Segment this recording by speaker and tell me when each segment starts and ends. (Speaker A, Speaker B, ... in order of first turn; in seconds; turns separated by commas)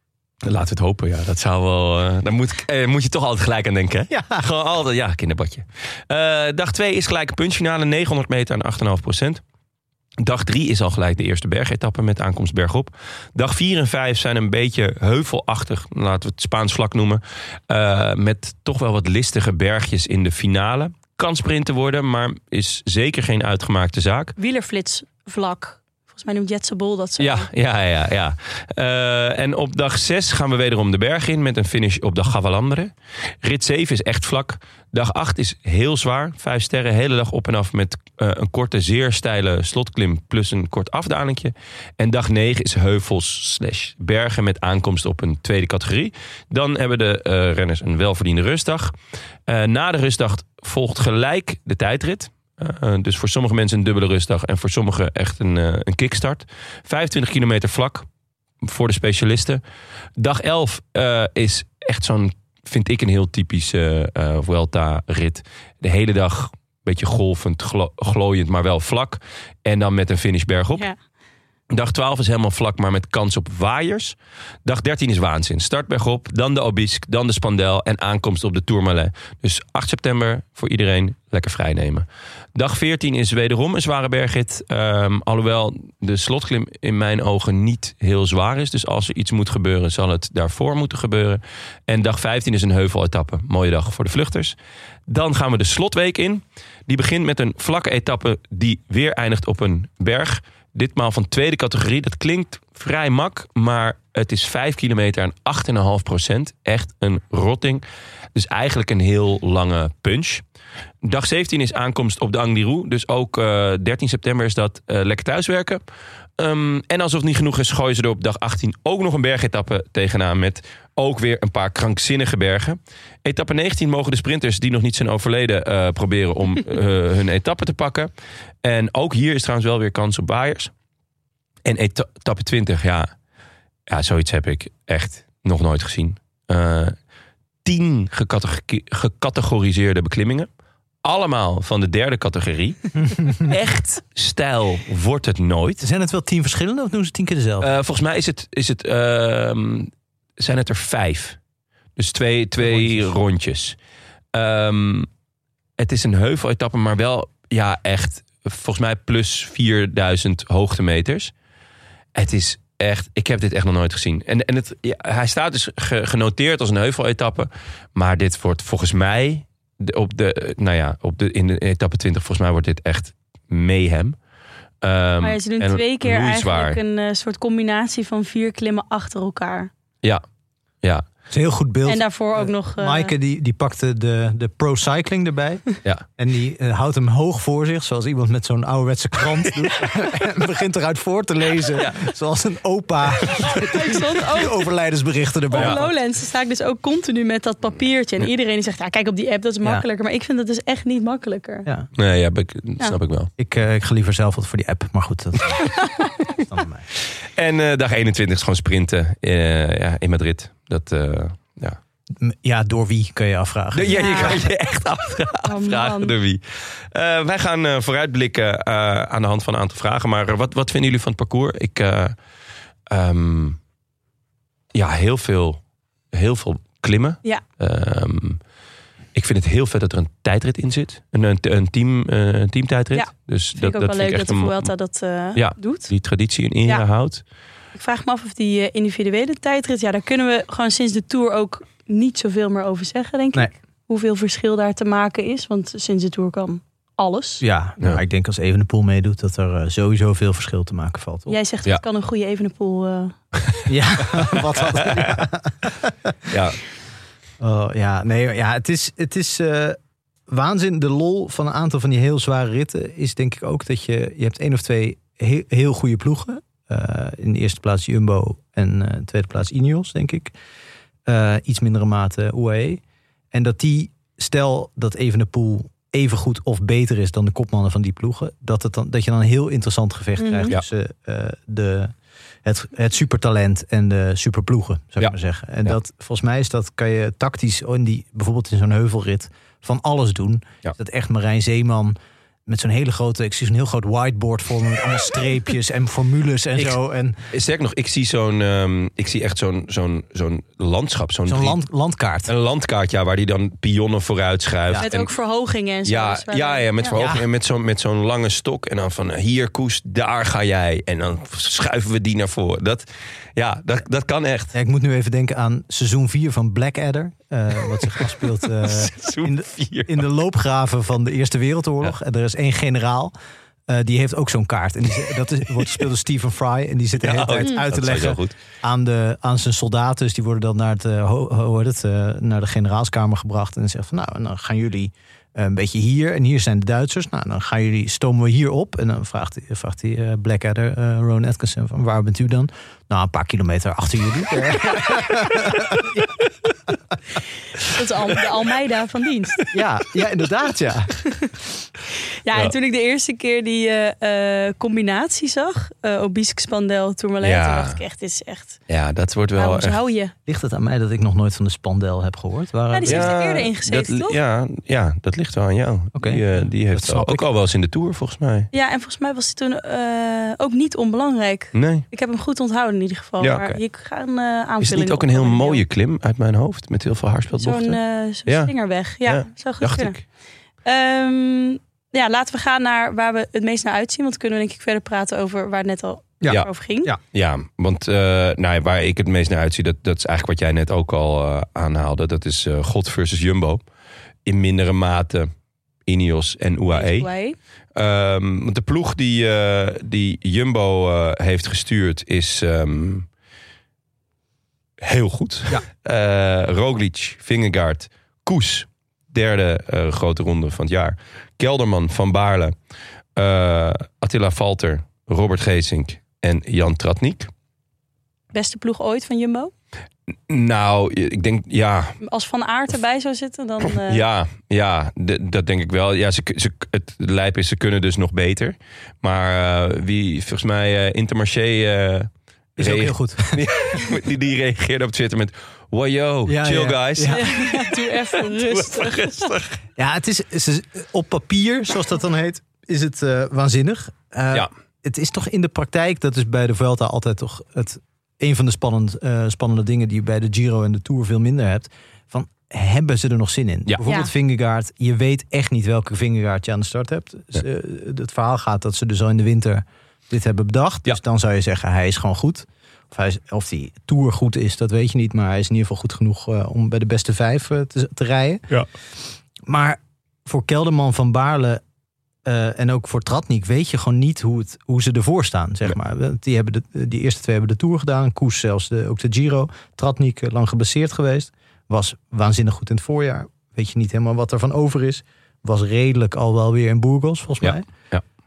Speaker A: 0.5-9.4, Speaker B: 4.1-4.5, Speaker A: 10.2-24.4, Speaker C: 24.4-27.5, Speaker A: 27.2-48.9, Speaker A: 49.5-58.1, Speaker A: 58.6-59.6, Speaker A: 60.2-70.8, Speaker A: 71.7-94.6, Speaker A: 95.1-110.4, Speaker A: 111.0-115.8, Speaker A: 116.4-128.1, Speaker A: 128.6-130.7, Speaker A: 131.7-133.1, Speaker A: 133.9-136.9, Speaker A: 137.6-140.5, Speaker A: 141.0-145.8, Speaker B: 145.8-147.7, Speaker A: 147.6-151.4, Speaker A: 152.0-153.8, Speaker B: 152.6-153.1, Speaker A: 154.3-155.1, Speaker A: 155.8-161.3, Speaker A: 162.2-174.2, Speaker A: 174.8-176.8, Speaker C: 175.2-179.7, Speaker B: 181.3-185.6, Speaker C: 181.8-183.1, Speaker B: 186.2-195.9, Speaker C: 193.7-194.6, Speaker C: 195.5-201.7, Speaker A: 202.0-203.3, Speaker B: 203.4-206.9, Speaker C: 205.8-206.1, Speaker A: 207.4-211.8, Speaker B: 212.2-214.4, Speaker A: 213.7-222.2, Speaker C: 213.9-214.4, Speaker C: 215.4-216.1, Speaker A: 222.9-223.6, Speaker A: 224.7-225.6, Speaker A: 226.1-228.4, Speaker A: 229.2-234.7, Speaker C: 232.9-235.9, Speaker A: 235.3-237.2, Speaker C: 237.8-247.4, Speaker B: 247.4-251.3, Speaker C: 251.3-253.2, Speaker B: 253.7-256.3, Speaker A: 254.2-255.2, Speaker A: 256.3-256.6, Speaker B: 257.4-270.3, Speaker B: 271.1-272.8, Speaker B: 273.3-291.9, Speaker C: 280.2-280.5, Speaker B: 292.5-297.2, Speaker A: 297.3-301.6, Speaker B: 301.3-302.3, Speaker A: 302.3-305.1, Speaker C: 304.8-307.0, Speaker A: 305.9-314.6, Speaker B: 306.9-307.3, Speaker B: 314.5-323.1, Speaker A: 318.6-320.0, Speaker B: 323.7-346.1, Speaker A: 327.0-328.4, Speaker C: 347.6-349.4, Speaker B: 349.5-351.1, Speaker C: 352.2-358.6, Speaker A: 357.2-357.8, Speaker A: 358.7-359.8, Speaker C: 359.4-360.1, Speaker B: 360.3-363.2, Speaker C: 362.7-364.2, Speaker A: 362.9-368.5, Speaker B: 365.9-367.2, Speaker C: 368.5-375.6, Speaker A: 371.5-371.9, Speaker A: 374.6-378.5, Speaker C: 377.4-380.0, Speaker A: 379.1-380.0, Speaker C: 380.6-386.9, Speaker B: 386.2-387.0, Speaker A: 387.1-393.6, Speaker A: 394.2-395.3, Speaker A: 395.9-397.1, Speaker C: 396.7-397.4, Speaker A: 397.8-403.1, Speaker A: 404.8-412.6, Speaker A: 413.2-417.3, Speaker C: 418.3-419.5, Speaker A: 420.3-422.0, Speaker C: 422.0-424.0, Speaker A: 423.9-437.3, Speaker B: 432.6-433.4, Speaker B: 436.3-437.4, Speaker C: 437.1-439.3, Speaker A: 438.2-439.6, Speaker B: 439.8-468.6, Speaker C: 453.8-454.1, Speaker B: 469.4-471.6, Speaker B: 472.2-487.7, Speaker A: 487.4-488.0